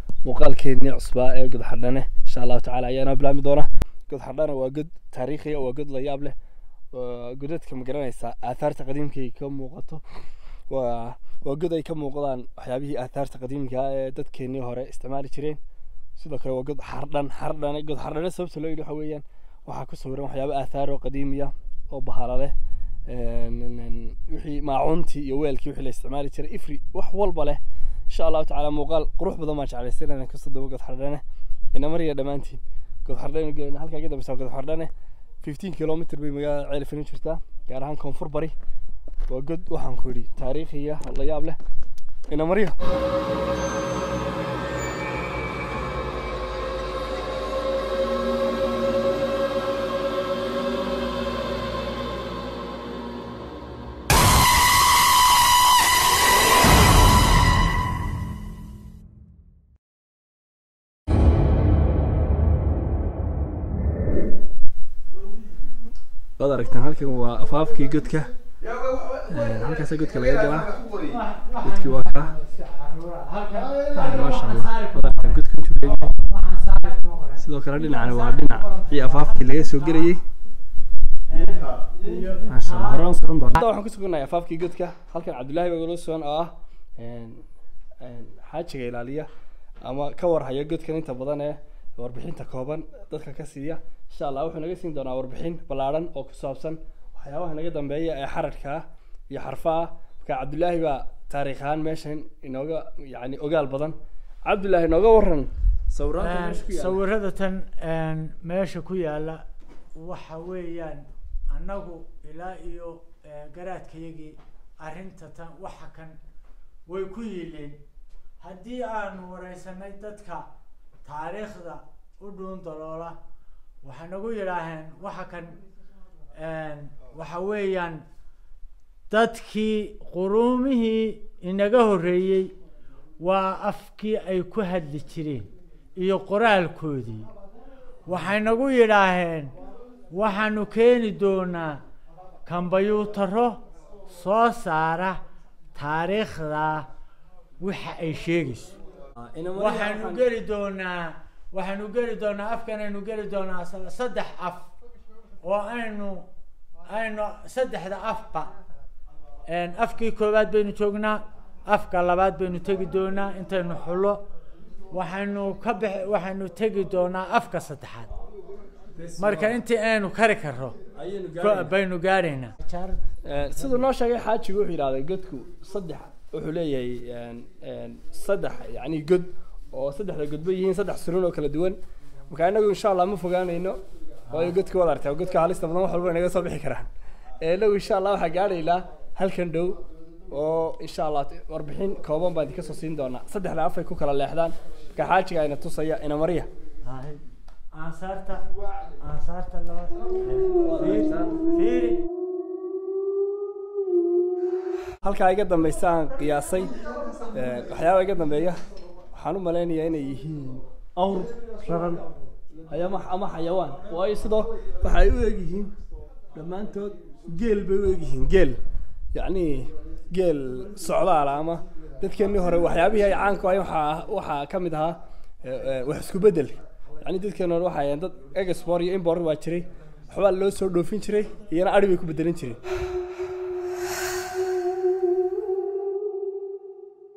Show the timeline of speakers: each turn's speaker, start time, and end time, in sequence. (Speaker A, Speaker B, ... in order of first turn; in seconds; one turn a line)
Speaker A: 0.2-6.3
Speaker A: 6.9-10.0
Speaker A: 10.7-15.6
Speaker A: 16.2-22.5
Speaker A: 23.1-38.5
Speaker A: 39.3-41.6
Speaker A: 42.3-42.8
Speaker A: 66.4-68.3
Speaker A: 69.1-70.9
Speaker B: 71.0-80.1
Speaker A: 71.6-72.3
Speaker A: 73.9-76.2
Speaker A: 77.4-80.2
Speaker B: 81.3-83.1
Speaker A: 82.5-87.4
Speaker A: 88.0-89.3
Speaker A: 89.8-107.0
Speaker B: 106.2-116.2
Speaker B: 116.9-117.8
Speaker B: 118.4-120.5
Speaker B: 121.0-123.2
Speaker B: 123.8-125.6
Speaker B: 126.3-128.0
Speaker B: 129.1-132.5
Speaker B: 133.2-137.3
Speaker B: 138.1-139.5
Speaker B: 140.1-141.8
Speaker B: 142.4-145.2
Speaker B: 145.7-146.9
Speaker B: 147.6-148.8
Speaker A: 149.2-150.2
Speaker B: 149.5-154.7
Speaker B: 155.4-156.3
Speaker B: 156.8-158.5
Speaker B: 159.5-164.2
Speaker B: 164.9-168.1
Speaker A: 168.9-169.6
Speaker B: 169.2-170.8
Speaker A: 170.9-171.7
Speaker B: 171.3-173.0
Speaker A: 173.2-186.9
Speaker A: 187.4-196.5
Speaker B: 196.8-198.4
Speaker B: 199.0-202.0
Speaker A: 200.6-201.4
Speaker A: 205.0-208.6
Speaker A: 209.1-212.1
Speaker A: 212.7-215.7
Speaker A: 216.3-218.6
Speaker A: 219.1-232.6